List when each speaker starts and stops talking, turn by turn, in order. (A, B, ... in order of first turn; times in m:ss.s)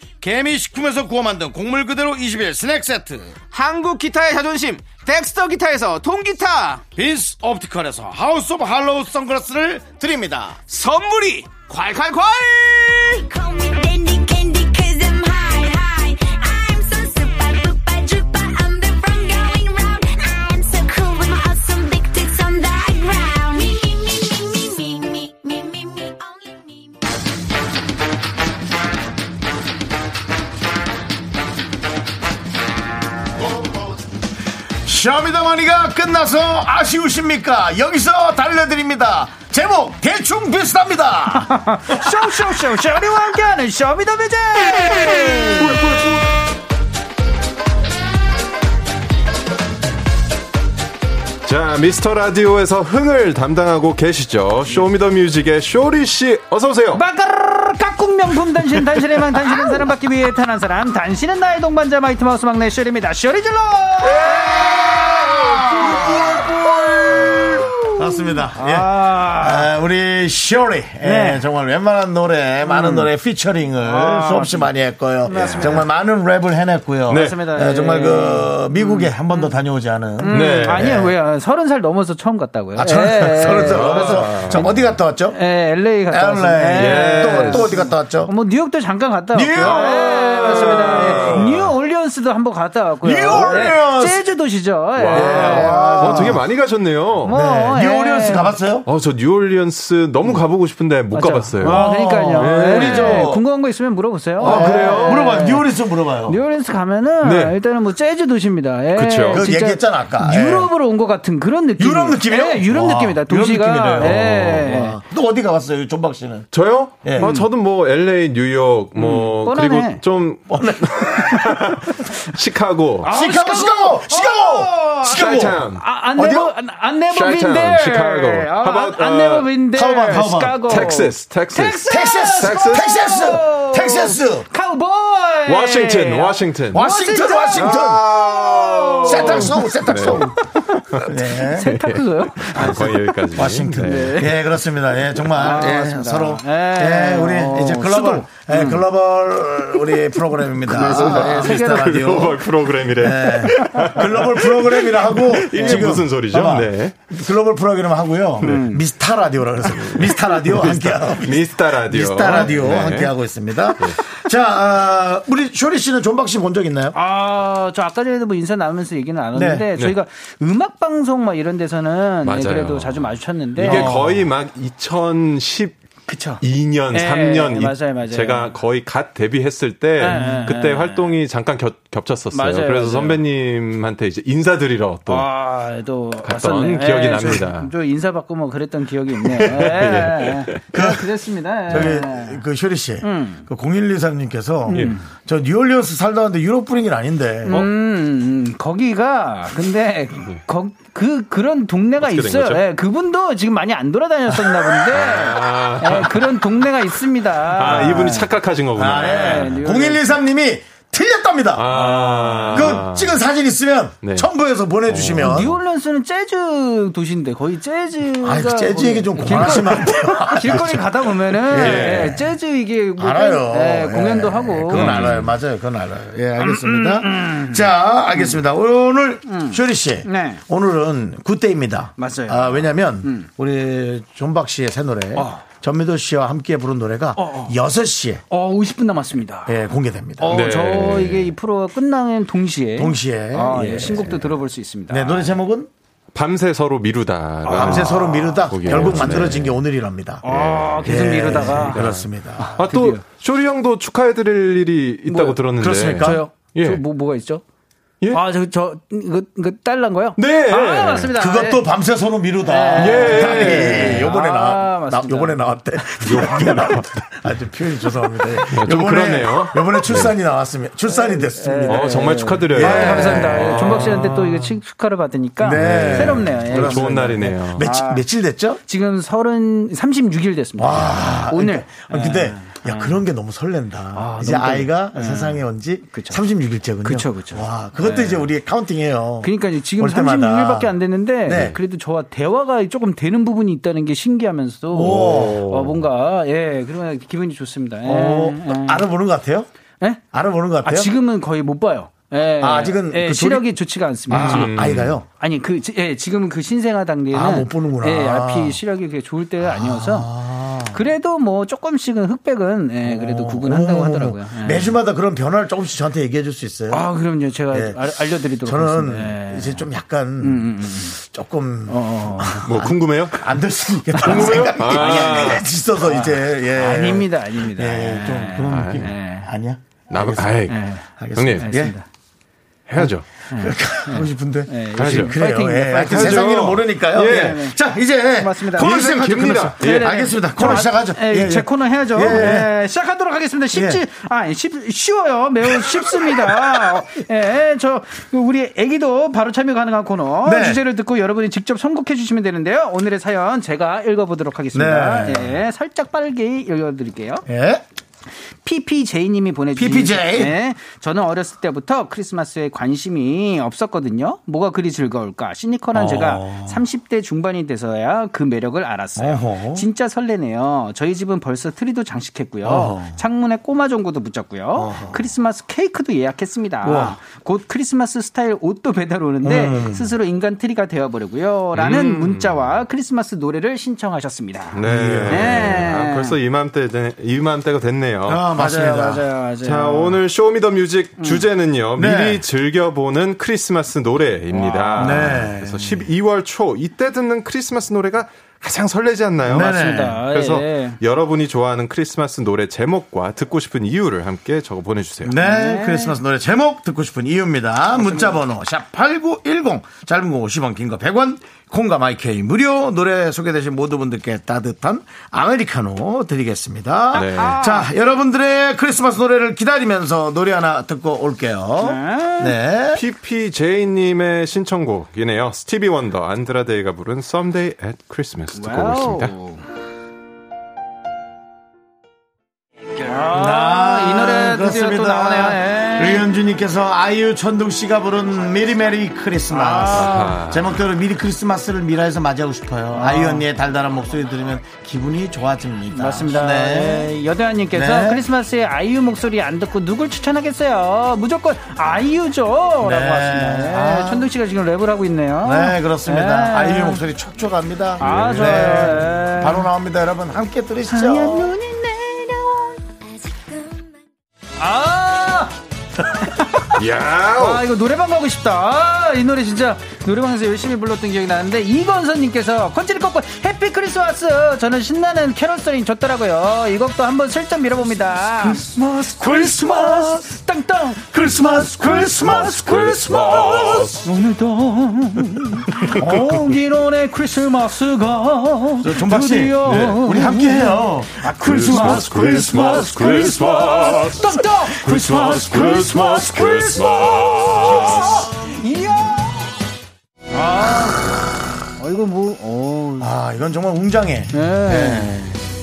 0:00.2-0:03.3 A
0:03.5-0:06.8 B
0:07.0-0:10.6 A
0:10.7-0:13.3 B
0:13.3-0:27.0 C
0:34.8-0:42.0 A
0:41.4-0:45.8 D
0:45.6-0:46.2 E
0:51.4-0:57.0 E
0:56.9-1:09.7 D
1:04.2-1:06.5 A
1:07.9-1:21.1 A
1:11.0-1:11.4 D
1:12.6-1:13.1 D
1:13.8-1:14.7 D
1:15.2-1:15.9 D
1:17.1-1:17.4 E
1:17.1-1:19.5 D
1:20.2-1:36.4 D
1:20.3-1:21.0 E
1:22.8-1:25.4 A
1:23.4-1:24.8 E
1:26.1-1:28.3 A
1:26.7-1:27.7 E
1:29.3-1:31.5 A
1:29.6-1:31.7 E
1:33.0-1:34.3 A
1:33.3-1:33.7 E
1:34.9-1:37.4 E
1:35.1-1:36.4 A
1:37.2-1:38.6 D
1:37.2-1:38.9 A
1:38.8-1:43.3 E
1:41.1-1:45.7 D
1:41.6-1:43.4 A
1:44.4-1:45.4 E
1:44.4-1:46.4 A
1:46.3-1:55.0 D
1:47.2-1:47.6 E
1:48.9-1:49.5 E
1:49.3-1:50.7 A
1:51.8-1:56.5 A
1:54.0-1:54.6 E
1:56.5-2:03.1 E
1:57.0-1:57.3 A
1:57.2-1:57.4 D
1:59.0-2:00.0 D
2:00.5-2:01.8 A
2:03.0-2:23.1 D
2:03.0-2:05.6 A
2:05.0-2:05.8 E
2:06.2-2:06.5 A
2:07.1-2:09.5 E
2:09.7-2:10.9 A
2:10.6-2:12.9 E
2:11.9-2:14.5 A
2:15.4-2:16.8 E
2:16.7-2:18.1 A
2:17.6-2:20.3 E
2:19.0-2:20.4 A
2:21.0-2:21.8 A
2:21.6-2:24.3 E
2:22.5-2:47.0 A
2:23.8-2:24.4 D
2:25.3-2:28.8 D
2:29.8-2:32.1 D
2:30.6-2:37.0 E
2:35.6-2:36.0 D
2:38.4-2:38.8 D
2:39.7-2:43.1 E
2:46.9-2:54.0 D
2:49.3-2:49.7 A
2:52.2-2:55.8 E
2:53.6-2:54.3 A
2:56.1-2:56.4 D
2:56.4-3:05.3 E
2:56.9-2:58.5 D
3:00.0-3:01.1 D
3:02.3-3:03.2 D
3:05.1-3:12.4 D
3:06.2-3:07.7 E
3:09.2-3:10.6 E
3:10.7-3:11.1 A
3:11.7-3:17.6 A
3:13.0-3:13.4 D
3:14.7-3:15.1 D
3:14.7-3:15.0 E
3:17.4-3:28.3 D
3:22.0-3:22.6 E
3:24.9-3:26.7 E
3:27.5-3:29.7 E
3:27.7-3:28.0 A
3:28.8-3:35.5 A
3:29.1-3:30.1 D
3:31.5-3:33.1 E
3:31.7-3:32.8 D
3:34.0-3:34.3 E
3:34.9-3:35.6 E
3:35.2-3:45.2 D
3:38.2-3:42.3 A
3:41.5-3:42.2 E
3:43.0-3:58.2 A
3:44.7-3:45.3 E
3:46.4-3:48.4 D
3:49.2-3:50.4 D
3:52.0-3:53.3 D
3:55.2-3:55.4 D
3:57.2-3:57.6 D
3:58.3-3:59.5 D
3:59.4-4:00.4 A
4:00.2-4:05.3 D
4:00.3-4:01.3 E
4:02.8-4:04.4 A
4:04.9-4:05.7 A
4:06.1-4:09.6 E
4:07.4-4:09.3 D
4:07.5-4:10.2 A
4:10.2-4:13.0 D
4:10.2-4:16.8 E
4:10.8-4:12.5 A
4:15.1-4:15.4 D
4:15.6-4:16.2 A
4:16.0-4:17.4 D
4:18.1-4:21.6 D
4:20.2-4:21.1 E
4:21.2-4:34.0 A
4:22.4-4:25.4 D
4:22.7-4:24.1 E
4:26.0-4:26.9 E
4:28.5-4:30.1 E
4:30.9-4:38.0 D
4:31.6-4:34.6 E
4:35.4-4:38.6 A
4:35.6-4:37.6 E
4:38.6-4:43.0 D
4:40.6-4:51.6 A
4:43.9-4:46.2 D
4:46.8-4:48.3 D
4:49.2-4:58.8 D
4:54.7-4:55.5 A
4:54.8-4:55.8 E
4:57.8-4:59.5 A
5:00.1-5:00.9 A
5:00.6-5:10.1 D
5:02.4-5:03.5 A
5:04.1-5:05.0 A
5:04.1-5:04.9 E
5:07.1-5:08.6 A
5:09.4-5:10.8 A
5:10.7-5:14.8 D
5:12.8-5:16.9 A
5:16.7-5:19.7 D
5:17.5-5:17.8 A
5:18.4-5:31.8 A
5:20.2-5:21.0 D
5:21.7-5:22.7 D
5:22.4-5:23.2 E
5:24.0-5:25.3 D
5:24.0-5:25.5 E
5:25.8-5:29.3 D
5:28.5-5:28.9 E
5:29.9-5:30.6 E
5:30.5-5:30.8 D
5:31.2-5:31.5 E
5:31.4-5:31.8 D
5:32.7-5:33.0 E
5:32.8-5:42.5 A
5:33.3-5:36.5 D
5:34.8-5:35.2 E
5:35.8-5:37.4 E
5:37.0-5:37.6 D
5:38.2-5:39.0 D
5:38.6-5:40.0 E
5:39.6-5:57.2 D
5:43.5-5:43.8 A
5:45.6-5:46.4 A
5:50.2-5:50.6 A
5:54.5-5:55.3 A
5:57.3-5:57.6 A
5:58.4-6:26.2 D
5:59.6-6:00.4 A
6:05.7-6:06.6 A
6:09.0-6:09.6 A
6:12.4-6:13.0 A
6:14.5-6:15.0 A
6:16.6-6:17.0 A
6:19.2-6:19.9 A
6:21.5-6:22.4 E
6:24.5-6:28.2 E
6:24.6-6:25.6 A
6:28.0-6:29.1 A
6:28.3-6:30.0 D
6:29.4-6:45.2 E
6:31.0-6:31.2 D
6:31.8-6:32.2 A
6:34.3-6:35.2 D
6:34.8-6:35.8 A
6:39.3-6:40.0 A
6:39.4-6:40.8 D
6:45.0-7:02.8 A
6:45.2-6:46.0 D
6:47.8-6:48.1 D
6:56.9-6:57.4 E
6:57.1-6:57.7 D
7:01.6-7:02.4 D
7:02.7-7:09.1 E
7:08.3-7:09.4 D
7:12.8-7:16.1 D
7:13.0-7:26.9 A
7:19.3-7:20.2 D
7:19.7-7:20.6 E
7:22.7-7:23.3 D
7:25.7-7:36.8 D
7:27.5-7:28.0 A
7:32.6-7:34.1 A
7:35.2-7:41.3 A
7:37.8-7:38.8 E
7:37.8-7:39.5 D
7:40.7-7:42.6 D
7:44.4-7:45.3 D
7:46.0-7:46.6 D
7:46.5-7:47.5 E
7:47.1-8:19.4 D
7:58.2-8:00.1 A
8:00.9-8:02.4 A
8:02.2-8:03.8 E
8:03.1-8:03.6 A
8:05.6-8:06.3 A
8:08.6-8:12.7 A
8:09.4-8:09.8 E
8:11.2-8:18.1 E
8:20.1-8:21.0 D
8:21.6-8:22.9 D
8:22.8-8:25.2 A
8:24.1-8:25.0 D